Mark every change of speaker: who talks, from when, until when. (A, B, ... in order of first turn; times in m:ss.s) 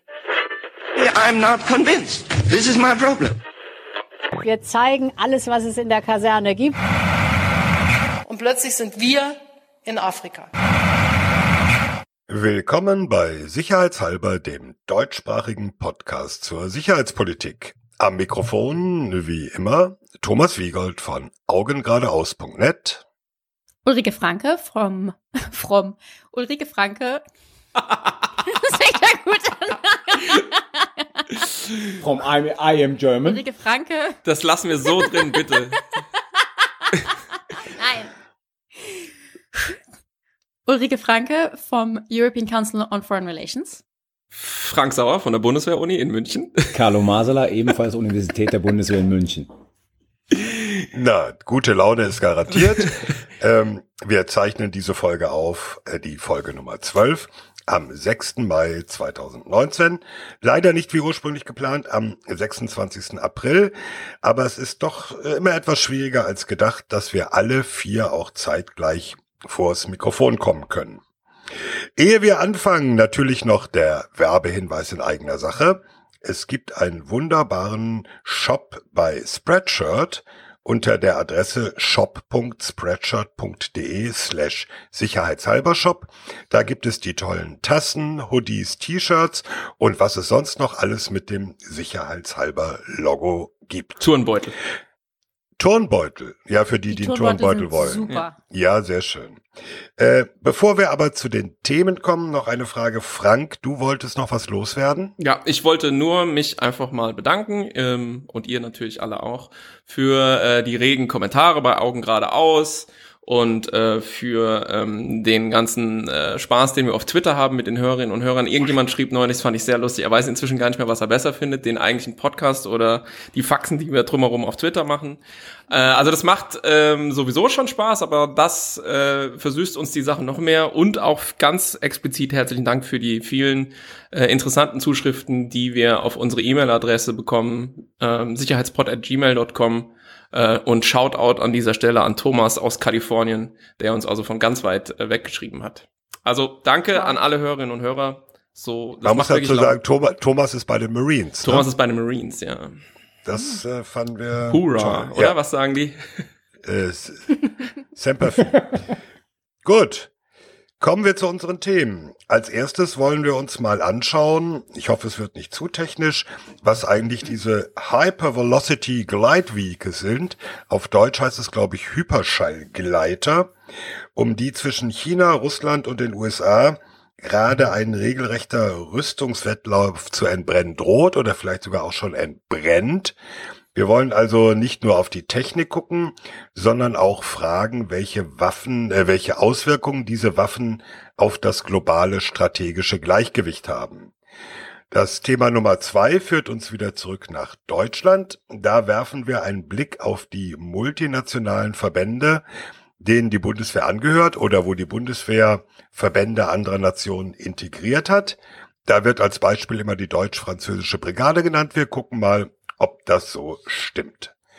0:01.0-0:03.4 A
0:04.5-0:06.7 B
0:08.3-0:10.5 C
0:12.3-0:23.0 D
0:23.8-0:27.2 E
0:28.4-0:31.2 E
0:32.0-0:33.4 F
0:33.3-0:34.2 E
0:34.2-0:35.8 G
0:37.0-0:38.1 E
0:40.7-0:43.8 E
0:44.3-0:46.7 G
0:46.7-0:49.5 F
0:50.9-1:11.0 D
1:12.0-1:34.1 D
1:34.0-1:34.6 G
1:35.6-1:39.4 D
1:36.9-1:38.4 E
1:40.0-1:45.1 D
1:45.2-2:05.2 G
2:05.7-2:29.8 G
2:29.0-2:31.7 D
2:31.4-2:32.8 G
2:33.3-2:35.4 D
2:34.5-2:36.2 G
2:36.6-2:37.4 D
2:37.9-2:38.6 D
2:39.6-2:40.1 D
2:40.8-2:53.5 D
2:54.2-3:03.2 D
3:03.7-3:14.1 D
3:14.9-3:22.4 D
3:23.0-3:34.3 D